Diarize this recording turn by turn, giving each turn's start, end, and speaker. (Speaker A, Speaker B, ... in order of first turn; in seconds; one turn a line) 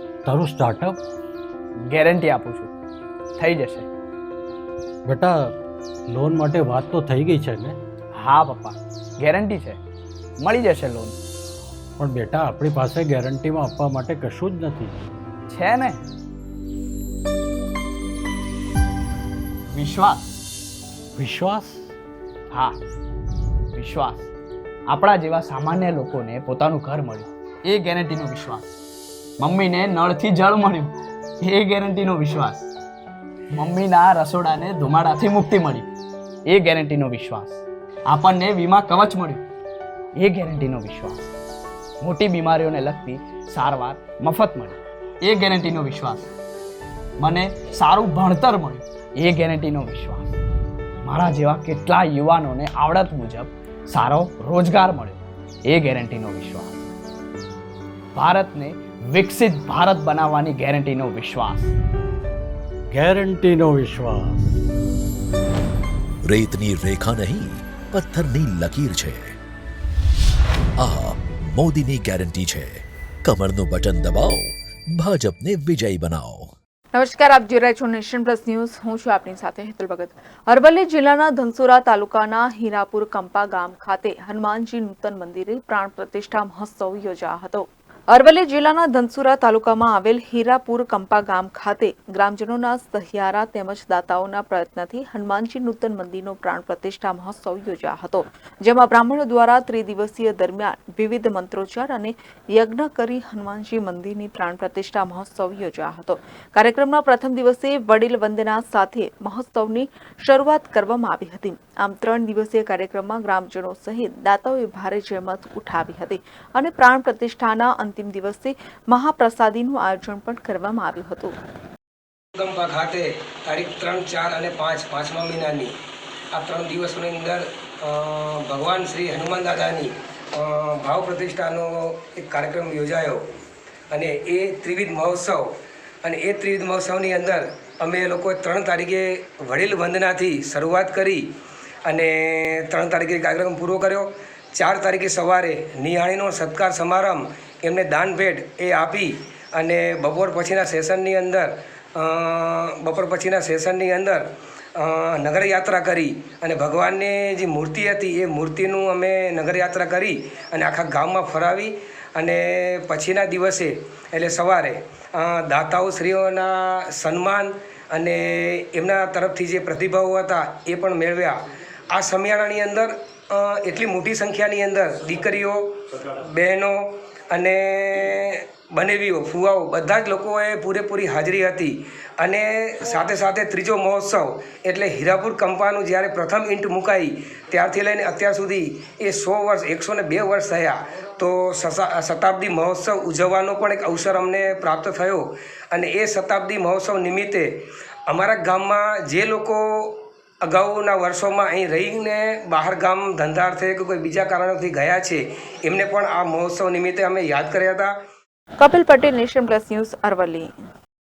Speaker A: 0.2-1.0
Speaker B: 1.9-2.7
Speaker B: 3.4-3.9
Speaker A: 5.0-5.5
Speaker A: 6.1-7.8
Speaker B: 8.2-9.8
Speaker B: 10.4-11.1
Speaker A: 12.0-15.0
Speaker B: 15.5-15.9
Speaker B: 19.8-20.2
Speaker A: 21.2-21.9
Speaker B: 23.8-24.3
Speaker B: 24.9-28.6
Speaker B: 29.4-30.9
Speaker B: 31.4-32.5
Speaker B: 33.5-35.9
Speaker B: 36.5-39.4
Speaker B: 40.2-41.1
Speaker B: 42.0-46.3
Speaker B: 47.2-50.1
Speaker B: 51.0-55.2
Speaker B: 55.7-56.7
Speaker B: 58.2-61.7
Speaker A: 62.9-64.5
Speaker C: 66.2-69.3
Speaker C: 70.8-76.5
Speaker D: 76.9-121.3
Speaker E: 122.4-125.7
Speaker E: 126.3-133.2
Speaker E: 133.9-141.3
Speaker E: 141.8-154.2
Speaker E: 154.8-171.4
Speaker E: 171.9-197.5
Speaker E: 198.1-207.9
Speaker D: 208.6-210.5